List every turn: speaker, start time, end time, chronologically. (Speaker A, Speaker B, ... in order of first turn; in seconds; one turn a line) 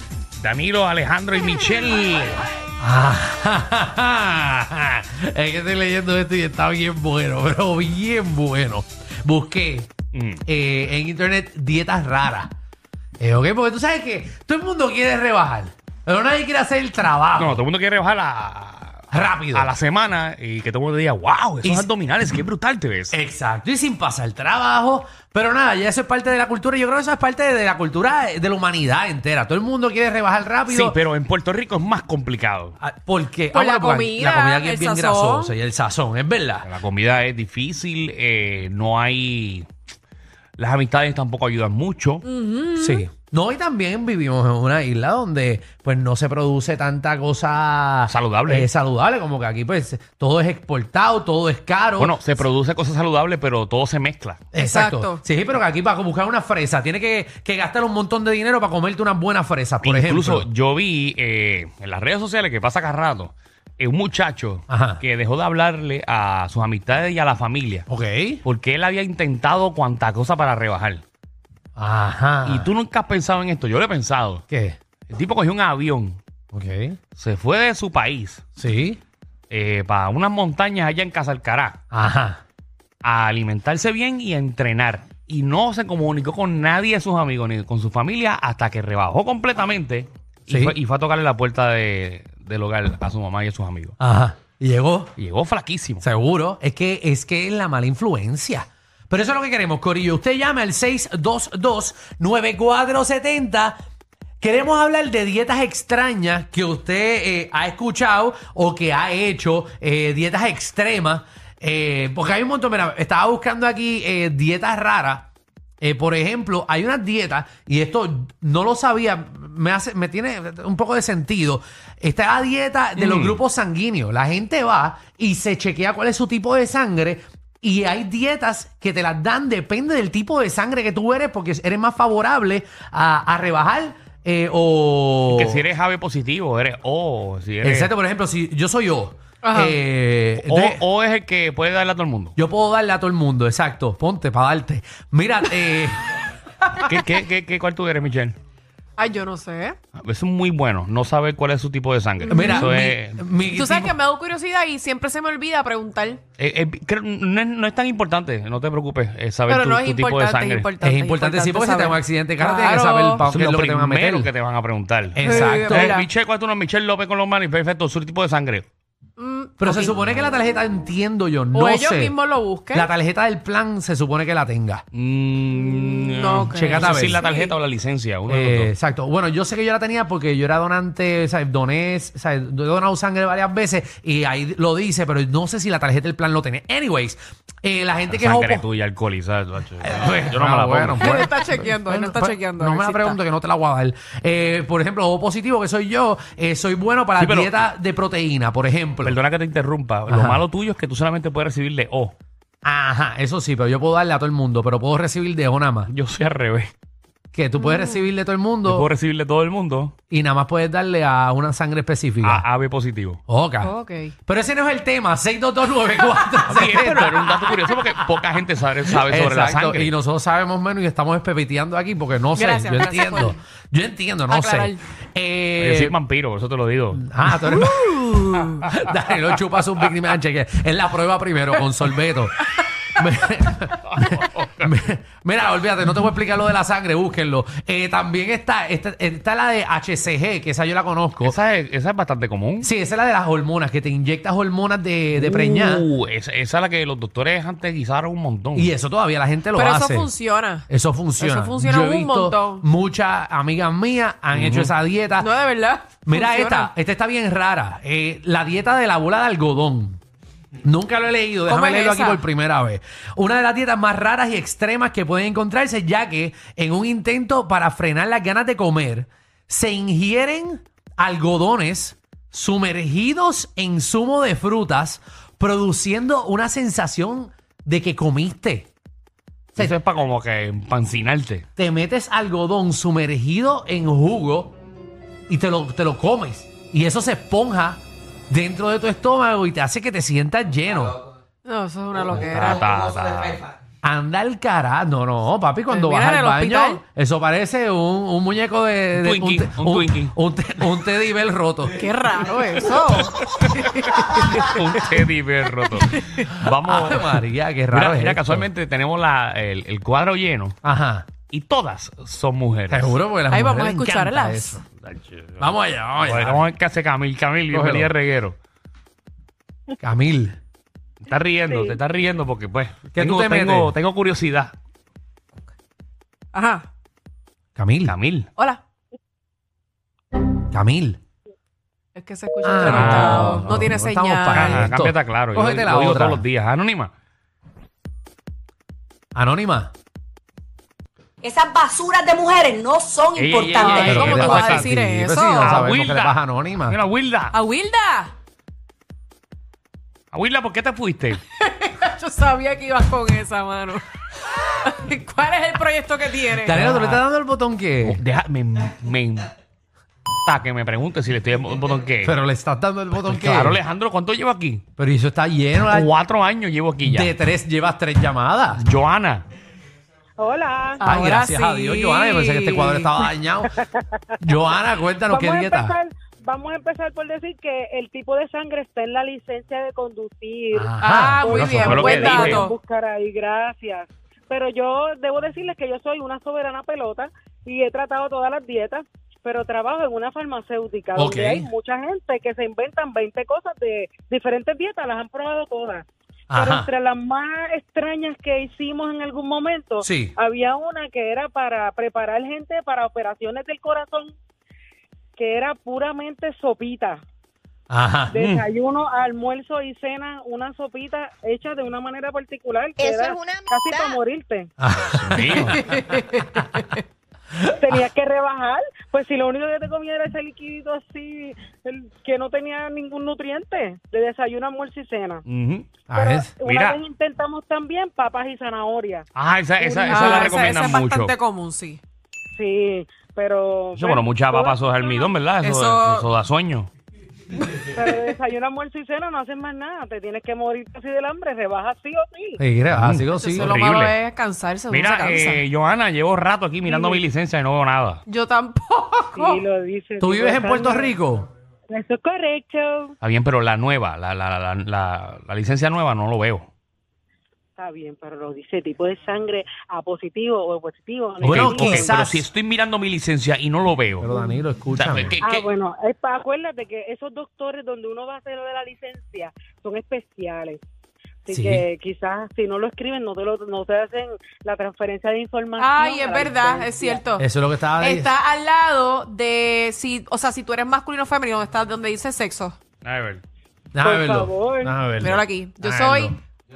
Speaker A: 0.4-2.4
Speaker B: 2.8-9.9
Speaker A: 10.1-10.4
Speaker B: 10.5-12.5
Speaker B: 13.2-17.6
Speaker A: 17.4-23.2
Speaker B: 19.1-19.7
Speaker B: 21.6-21.9
Speaker B: 23.1-31.0
Speaker A: 30.7-32.8
Speaker B: 32.8-36.7
Speaker C: 33.5-35.5
Speaker A: 36.6-39.7
Speaker A: 40.6-42.2
Speaker C: 42.2-43.0
Speaker B: 42.8-52.2
Speaker A: 48.1-48.7
Speaker A: 52.0-54.5
Speaker B: 54.5-60.5
Speaker C: 54.5-55.2
Speaker A: 59.8-67.9
Speaker B: 64.7-65.0
Speaker B: 67.9-68.4
Speaker A: 68.4-71.0
Speaker B: 71.8-72.7
Speaker A: 72.4-74.4
Speaker B: 74.5-74.8
Speaker A: 75.1-76.2
Speaker B: 76.5-77.0
Speaker A: 77.2-78.4
Speaker B: 78.6-79.0
Speaker A: 79.5-81.8
Speaker B: 81.9-82.4
Speaker A: 83.0-94.0
Speaker B: 90.5-90.8
Speaker B: 94.0-95.1
Speaker A: 95.2-96.0
Speaker B: 96.0-103.8
Speaker B: 104.4-115.3
Speaker B: 115.8-135.6
Speaker A: 123.0-123.4
Speaker A: 135.3-137.9
Speaker B: 137.6-140.8
Speaker C: 139.4-139.8
Speaker A: 140.4-142.3
Speaker B: 142.4-146.0
Speaker A: 146.8-148.4
Speaker C: 149.0-149.8
Speaker A: 150.0-153.2
Speaker C: 152.2-152.8
Speaker B: 152.3-153.9
Speaker C: 153.5-156.2
Speaker A: 156.4-160.7
Speaker C: 159.5-163.2
Speaker B: 160.8-164.3
Speaker A: 163.3-168.7
Speaker B: 165.2-166.0
Speaker C: 165.2-166.1
Speaker C: 169.2-169.9
Speaker B: 169.6-172.1
Speaker C: 171.5-172.9
Speaker B: 172.7-174.8
Speaker A: 174.9-178.7
Speaker C: 176.0-177.6
Speaker B: 176.5-177.2
Speaker B: 178.3-188.7
Speaker A: 188.1-191.3
Speaker B: 189.8-199.2
Speaker C: 191.0-193.2
Speaker A: 197.2-197.6
Speaker A: 199.0-202.2
Speaker B: 200.1-200.4
Speaker B: 202.6-205.9
Speaker A: 205.9-206.7
Speaker B: 207.3-208.9
Speaker C: 207.6-207.9
Speaker A: 208.7-209.9
Speaker B: 210.1-212.4
Speaker A: 212.2-213.2
Speaker B: 213.3-213.7
Speaker C: 213.6-214.2
Speaker B: 214.2-218.2
Speaker A: 216.5-219.9
Speaker B: 218.9-226.0
Speaker C: 222.3-223.4
Speaker C: 224.3-224.8
Speaker A: 225.6-227.0
Speaker B: 226.9-241.4
Speaker C: 227.5-228.5
Speaker A: 233.8-234.7
Speaker A: 241.2-242.7
Speaker B: 242.6-245.9
Speaker A: 245.2-248.7
Speaker B: 248.6-250.1
Speaker C: 249.5-252.6
Speaker B: 250.7-255.3
Speaker A: 254.3-254.7
Speaker C: 255.2-256.7
Speaker B: 256.1-260.0
Speaker B: 260.6-278.7
Speaker C: 261.5-262.2
Speaker A: 279.6-281.4
Speaker B: 281.6-284.6
Speaker B: 285.3-291.0
Speaker C: 291.4-292.7
Speaker A: 292.1-293.5
Speaker B: 293.8-301.9
Speaker C: 295.7-296.8
Speaker A: 299.0-300.1
Speaker C: 301.8-304.8
Speaker A: 304.3-310.6
Speaker C: 305.8-306.3
Speaker B: 306.5-308.5
Speaker B: 310.6-311.1
Speaker A: 311.3-313.0
Speaker B: 312.7-314.6
Speaker C: 313.3-314.6
Speaker A: 314.8-318.4
Speaker B: 315.4-316.5
Speaker B: 317.5-317.9
Speaker B: 319.8-320.4
Speaker A: 321.0-324.5
Speaker D: 321.5-321.8
Speaker B: 323.0-323.7
Speaker C: 326.3-326.7
Speaker B: 327.6-327.9
Speaker A: 327.9-328.3
Speaker C: 328.4-328.6
Speaker B: 330.5-331.0
Speaker C: 331.9-334.6
Speaker B: 332.4-336.2
Speaker A: 332.6-333.6
Speaker A: 334.3-336.9
Speaker B: 339.1-339.7
Speaker E: 341.2-344.1
Speaker A: 343.2-344.8
Speaker C: 343.6-345.6
Speaker B: 343.6-346.8
Speaker A: 345.4-347.4
Speaker C: 347.3-348.1
Speaker A: 350.1-351.2
Speaker C: 351.4-356.6
Speaker B: 356.4-358.0
Speaker A: 356.5-357.0
Speaker A: 357.8-359.3
Speaker A: 360.2-362.2
Speaker B: 362.0-363.6
Speaker A: 363.0-364.6
Speaker B: 364.8-365.9
Speaker A: 365.7-367.1
Speaker B: 366.8-368.6
Speaker A: 368.6-369.3
Speaker D: 370.2-371.0
Speaker C: 370.8-373.0
Speaker B: 370.8-373.5
Speaker D: 373.5-374.2
Speaker B: 374.2-375.7
Speaker D: 375.1-404.1
Speaker B: 380.5-381.8
Speaker C: 380.8-382.5
Speaker A: 381.6-382.4
Speaker B: 391.0-391.5
Speaker B: 396.3-396.7
Speaker B: 399.8-400.1
Speaker D: 405.2-407.0
Speaker B: 407.7-408.2
Speaker D: 408.1-414.5
Speaker E: 412.8-414.0
Speaker B: 414.6-415.6
Speaker A: 414.8-415.7
Speaker D: 415.2-415.6
Speaker C: 415.7-416.8
Speaker D: 417.6-425.2
Speaker A: 425.3-425.7
Speaker B: 425.9-426.4
Speaker D: 425.9-429.1
Speaker A: 426.4-426.8
Speaker A: 429.1-431.1
Speaker D: 429.6-430.3
Speaker C: 429.8-431.8
Speaker D: 432.4-435.2
Speaker A: 433.8-436.7
Speaker C: 435.4-436.1
Speaker D: 437.6-442.4
Speaker B: 442.4-443.6
Speaker A: 442.7-444.0
Speaker C: 443.1-445.4
Speaker A: 444.7-448.0
Speaker D: 446.6-447.0
Speaker C: 448.1-449.4
Speaker D: 449.1-450.9
Speaker B: 450.0-451.3
Speaker D: 451.7-452.9
Speaker A: 453.0-456.5
Speaker D: 457.6-461.9
Speaker B: 461.2-462.3
Speaker A: 461.3-464.1
Speaker B: 464.0-465.2
Speaker D: 464.1-464.4
Speaker A: 464.8-465.5
Speaker D: 465.2-470.6
Speaker D: 471.2-477.1
Speaker B: 471.3-471.6
Speaker C: 475.6-482.6
Speaker B: 477.2-478.1
Speaker A: 482.8-483.2
Speaker B: 483.8-486.2
Speaker D: 483.8-484.8
Speaker C: 485.0-486.2